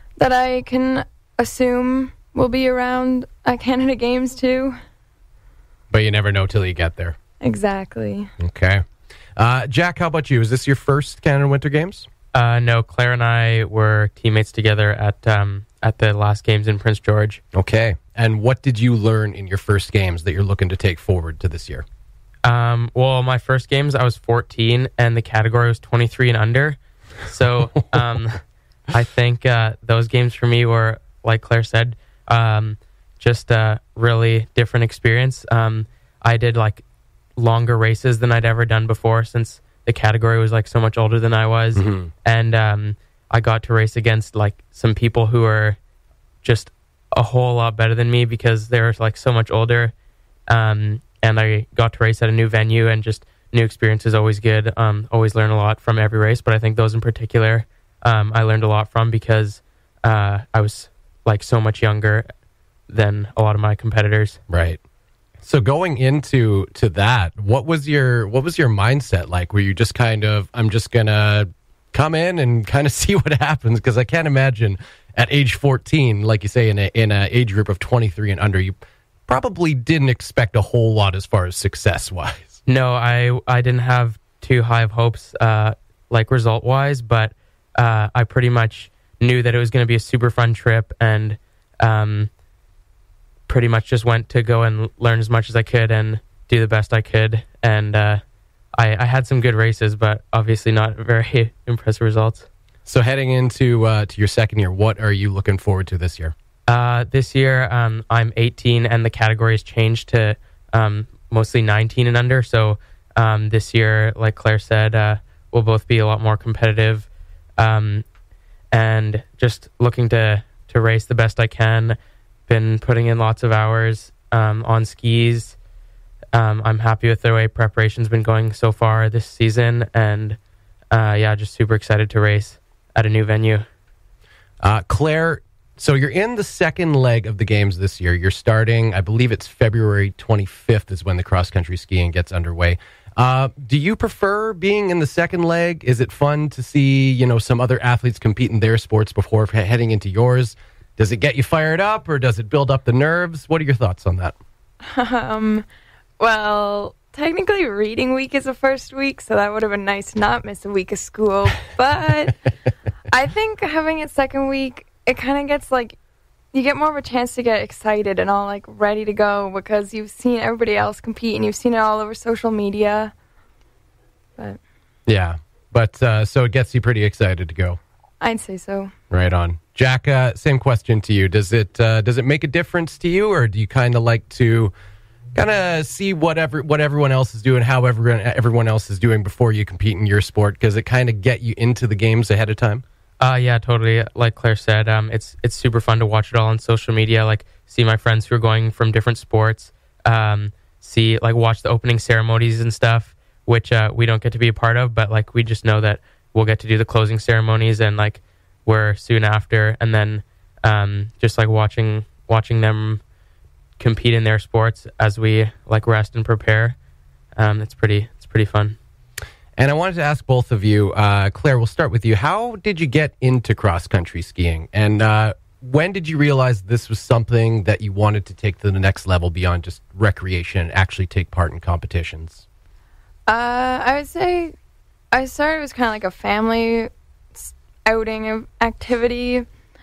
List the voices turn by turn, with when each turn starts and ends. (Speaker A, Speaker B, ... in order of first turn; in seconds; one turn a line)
Speaker A: 0.2-4.8
Speaker B: 5.9-7.2
Speaker A: 7.4-8.3
Speaker B: 8.4-8.8
Speaker B: 9.3-12.1
Speaker C: 12.3-17.4
Speaker B: 17.5-21.8
Speaker C: 22.4-28.4
Speaker C: 28.9-36.8
Speaker C: 37.4-45.8
Speaker B: 41.7-42.1
Speaker C: 46.4-49.9
Speaker C: 50.5-62.3
Speaker C: 62.9-64.4
Speaker B: 64.5-64.8
Speaker B: 65.4-78.8
Speaker B: 79.3-82.6
Speaker C: 82.7-92.3
Speaker C: 93.5-98.2
Speaker C: 98.7-102.5
Speaker B: 102.9-106.3
Speaker C: 106.7-117.1
Speaker C: 117.6-118.0
Speaker C: 118.7-122.0
Speaker C: 122.5-125.6
Speaker C: 126.3-130.4
Speaker C: 130.9-133.6
Speaker B: 134.6-154.3
Speaker A: 154.8-155.6
Speaker A: 156.2-162.4
Speaker A: 163.1-166.0
Speaker A: 166.5-173.1
Speaker B: 175.1-177.8
Speaker A: 178.2-178.9
Speaker B: 179.1-184.7
Speaker B: 185.3-192.8
Speaker C: 193.2-213.0
Speaker C: 213.8-216.8
Speaker C: 217.3-218.8
Speaker B: 219.6-232.4
Speaker A: 233.3-234.5
Speaker A: 235.1-239.5